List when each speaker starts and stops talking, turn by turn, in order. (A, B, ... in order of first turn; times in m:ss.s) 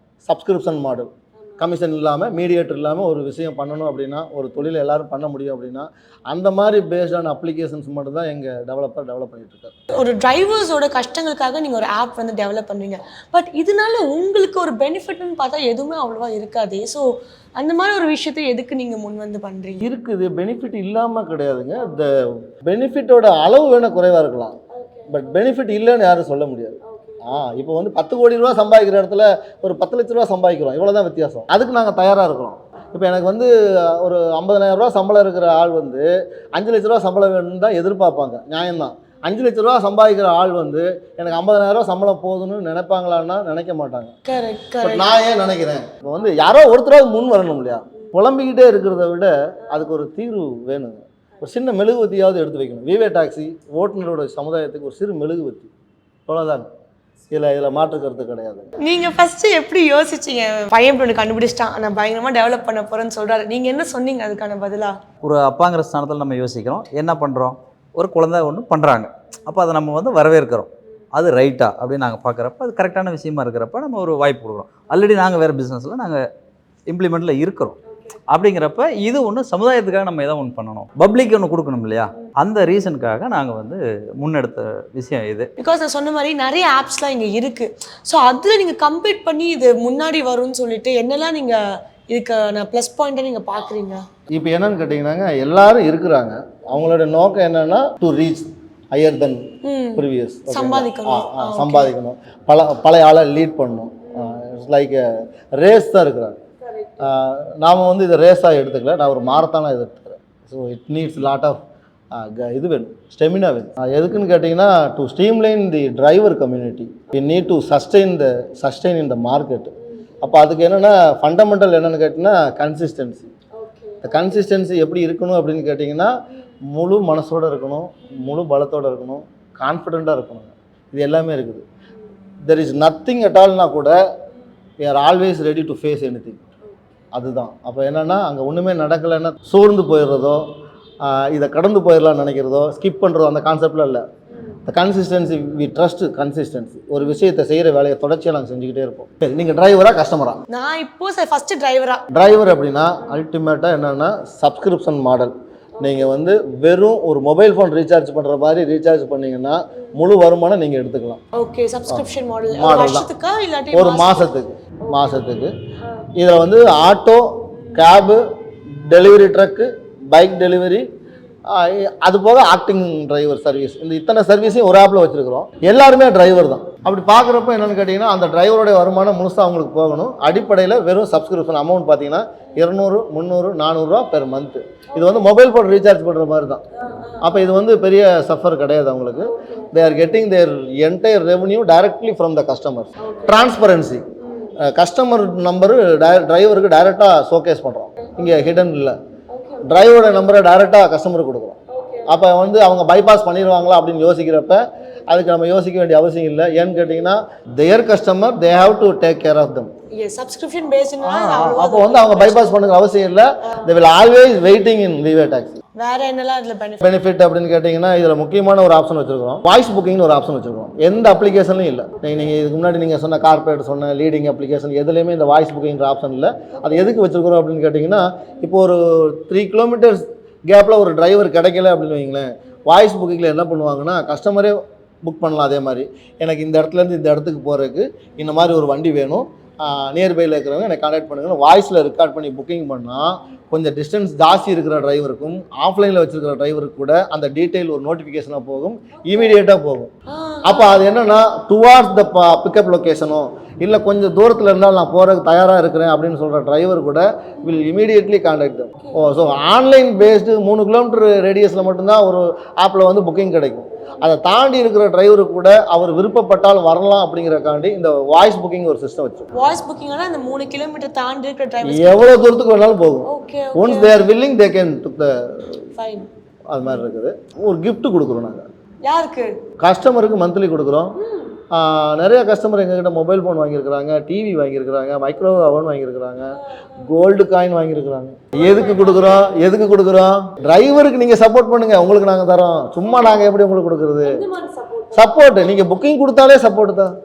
0:00.2-0:09.8 A
0:09.9-0:19.8 B
0:19.8-0:24.6 A
0:24.7-0:25.3 B
0:25.1-0:44.2 A
0:26.9-0:27.4 B
0:44.3-0:45.1 B
0:44.8-0:55.7 A
0:56.3-0:56.7 A
0:57.3-0:58.7 A
0:58.8-1:05.0 B
1:05.2-1:16.2 C
1:16.9-1:17.8 C
1:18.3-1:25.5 C
1:25.6-1:31.6 B
1:32.1-1:34.0 B
1:34.3-1:45.0 A
1:39.6-1:41.9 B
1:44.1-1:44.4 B
1:45.6-1:46.4 A
1:46.6-1:47.0 B
1:47.0-1:51.6 A
1:52.1-2:03.3 A
1:59.9-2:00.1 B
2:03.6-2:04.2 B
2:04.0-2:06.2 A
2:06.7-2:11.6 A
2:12.4-2:14.0 A
2:14.8-2:16.5 A
2:17.1-2:20.4 A
2:21.0-2:24.1 A
2:24.7-2:30.4 A
2:30.5-2:32.0 B
2:32.1-2:41.2 A
2:41.3-2:44.3 B
2:41.9-2:43.1 A
2:43.7-2:45.5 A
2:44.9-2:45.2 B
2:46.2-2:48.2 A
2:48.8-2:50.9 A
2:51.5-3:06.6 A
3:07.2-3:19.0 A
3:09.4-3:09.7 B
3:13.0-3:13.5 B
3:14.3-3:14.5 B
3:19.3-3:19.7 B
3:19.6-3:29.7 A
3:21.7-3:22.1 B
3:29.9-3:32.6 B
3:31.0-3:35.6 A
3:35.8-3:36.9 B
3:36.8-4:09.9 A
4:10.1-4:10.7 B
4:10.5-4:29.3 A
4:29.3-4:32.1 B
4:31.6-4:35.6 A
4:33.1-4:34.0 B
4:35.8-4:36.1 B
4:36.5-4:38.5 A
4:38.8-4:39.4 B
4:39.6-4:41.0 A
4:41.0-4:41.4 B
4:41.5-4:54.3 A
4:48.4-4:49.3 B
4:54.1-4:55.2 B
4:54.9-4:56.9 A